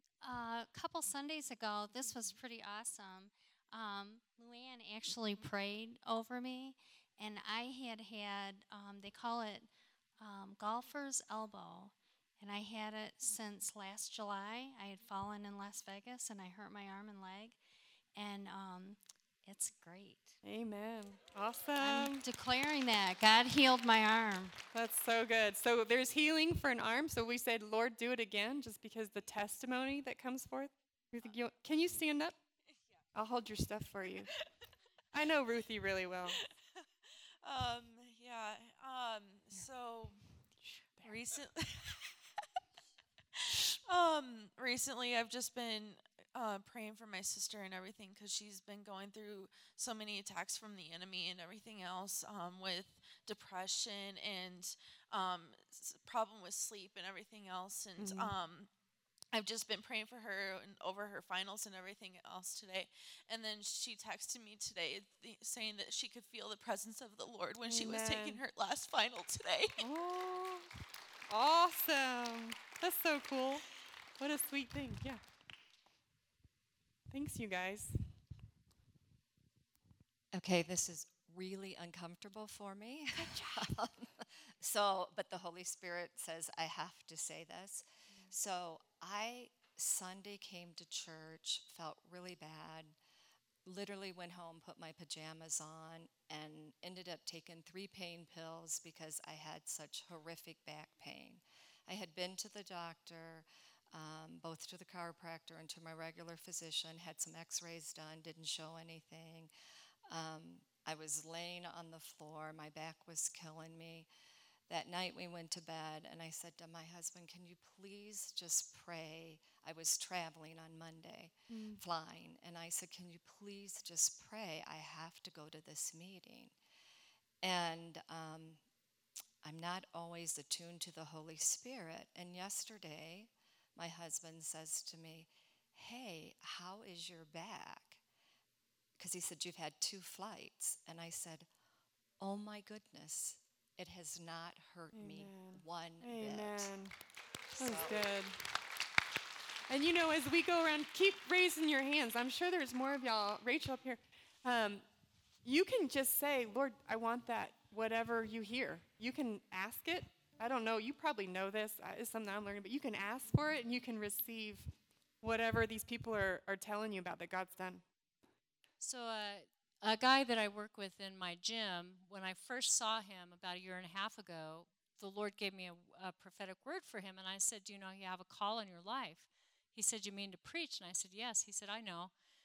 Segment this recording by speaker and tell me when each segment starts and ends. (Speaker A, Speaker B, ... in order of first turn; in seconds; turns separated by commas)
Speaker A: 0.2-17.6, Speaker A: 18.1-20.4, Speaker B: 20.4-22.2, Speaker A: 21.8-24.6, Speaker B: 24.7-32.4, Speaker B: 33.1-34.3, Speaker B: 35.1-36.4, Speaker C: 37.4-40.2, Speaker B: 40.6-41.2, Speaker C: 41.0-42.1, Speaker C: 43.7-58.7, Speaker B: 58.0-58.3, Speaker C: 59.3-69.9, Speaker B: 67.7-68.4, Speaker B: 69.8-70.7, Speaker B: 71.3-73.7, Speaker B: 74.2-75.2, Speaker B: 77.1-78.0, Speaker D: 80.3-93.0, Speaker D: 93.7-109.5, Speaker D: 110.1-114.1, Speaker D: 114.7-126.5, Speaker B: 121.5-121.8, Speaker D: 127.4-128.6, Speaker D: 129.4-138.0, Speaker D: 139.0-141.5, Speaker D: 142.2-146.7, Speaker B: 144.9-146.9, Speaker D: 147.5-148.1, Speaker B: 147.6-148.4, Speaker B: 149.7-154.8, Speaker B: 155.4-167.8, Speaker E: 168.8-182.1